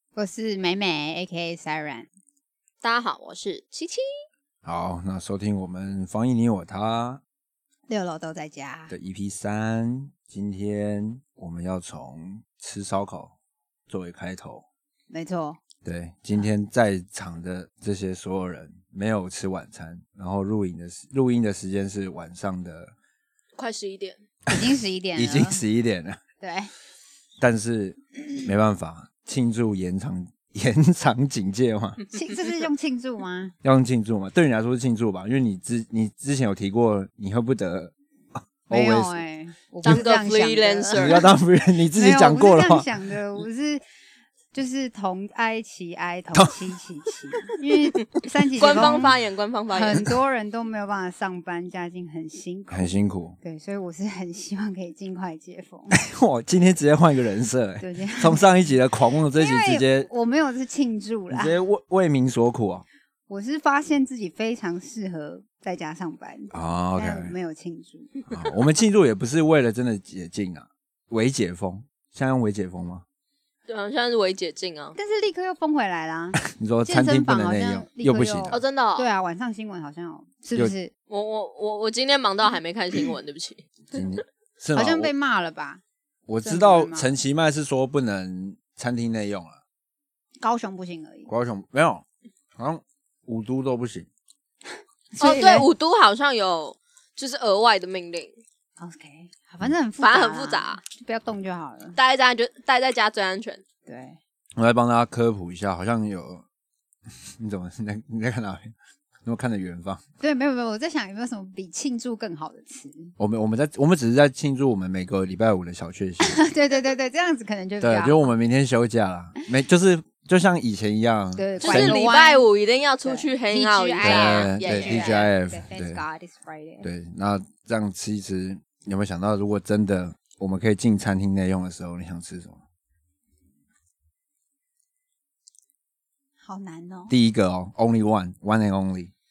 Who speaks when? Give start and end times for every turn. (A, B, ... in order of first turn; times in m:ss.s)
0:00.1-0:02.1 A
0:02.8-0:04.0 B
0:04.6-0:07.2 C
0:07.9-0:08.9 A
0:08.9-0:13.3 C
0:13.9-0:14.6 C
0:15.1-0:15.6 A
0:15.8-0:22.9 C
0:23.6-0:24.2 B
0:24.5-0:25.6 A
0:25.2-0:26.2 C
0:26.4-0:26.7 A
0:27.4-0:32.0 C
0:32.1-0:33.5 A
0:33.6-0:37.9 C
0:38.6-0:39.2 C
0:38.7-0:41.1 A
0:39.8-0:41.2 B
0:41.0-0:42.9 C
0:41.9-0:43.8 A
0:44.5-0:49.1 A
0:48.6-0:50.1 B
0:48.6-0:49.0 C
0:49.7-0:56.0 A
0:52.7-0:53.4 C
0:55.9-1:00.1 C
0:57.8-0:58.5 A
0:59.3-1:01.6 A
1:01.3-1:02.8 C
1:03.3-1:08.1 A
1:06.5-1:07.3 C
1:08.3-1:13.0 C
1:13.7-1:15.0 B
1:15.0-1:20.9 A
1:16.4-1:18.6 C
1:18.5-1:19.1 B
1:21.1-1:24.0 B
1:23.9-1:25.1 C
1:24.7-1:25.8 A
1:26.3-1:29.6 C
1:26.4-1:27.1 A
1:30.4-1:31.3 A
1:31.3-1:32.0 C
1:32.6-1:34.1 C
1:35.2-1:35.7 A
1:35.2-1:38.4 B
1:38.8-1:42.0 A
1:40.0-1:40.8 B
1:42.0-1:43.6 B
1:43.8-1:44.2 A
1:44.6-1:46.4 C
1:47.4-1:48.7 C
1:49.2-1:50.0 C
1:50.2-1:53.1 A
1:53.2-1:56.4 C
1:56.2-1:58.2 A
1:57.8-2:02.0 C
2:01.4-2:02.4 A
2:01.6-2:05.3 B
2:03.0-2:06.9 A
2:04.0-2:06.0 C
2:06.8-2:12.6 C
2:16.4-2:17.1 A
2:17.1-2:19.1 C